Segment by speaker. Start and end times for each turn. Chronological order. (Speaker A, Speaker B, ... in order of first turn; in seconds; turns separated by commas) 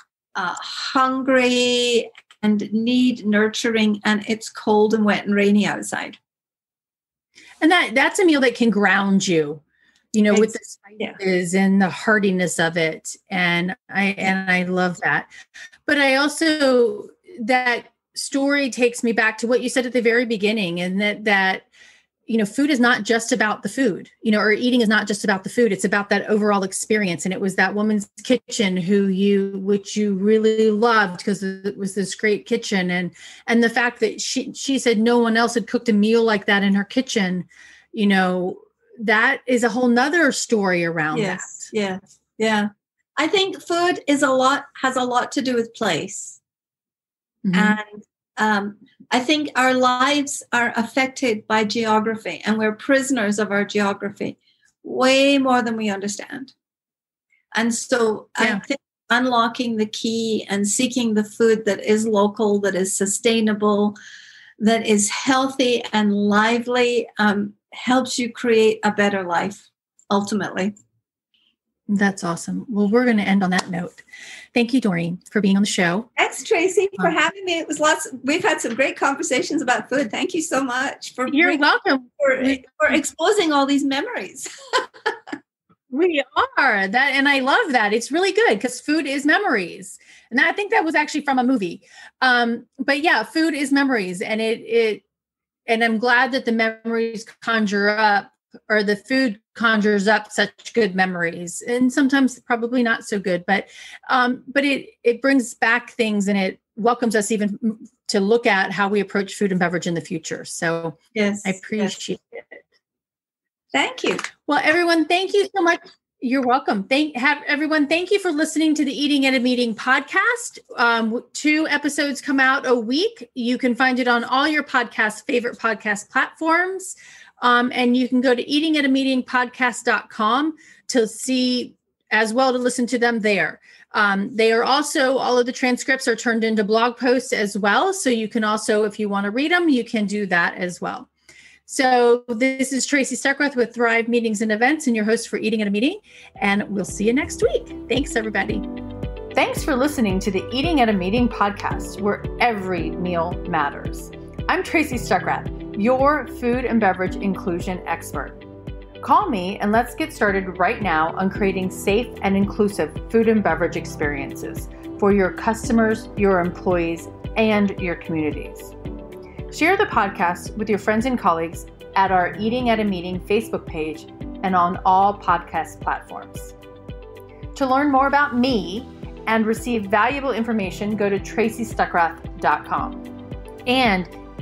Speaker A: 0.3-6.2, Speaker B: 7.6-9.6, Speaker B: 10.1-15.3, Speaker A: 10.3-11.2, Speaker B: 15.9-21.7, Speaker B: 22.3-41.7, Speaker A: 41.1-46.4, Speaker B: 47.4-47.8, Speaker A: 47.5-56.5, Speaker A: 57.5-64.0, Speaker A: 64.6-70.7, Speaker B: 71.9-76.1, Speaker A: 76.2-81.6, Speaker B: 81.3-82.6, Speaker A: 82.2-85.1, Speaker B: 85.9-95.0, Speaker B: 95.7-112.6, Speaker A: 111.2-111.9, Speaker A: 113.7-114.3, Speaker B: 114.5-141.1, Speaker B: 141.7-148.7, Speaker B: 149.3-158.4, Speaker B: 159.0-168.8, Speaker B: 169.5-176.6, Speaker B: 177.6-183.1, Speaker B: 183.7-184.1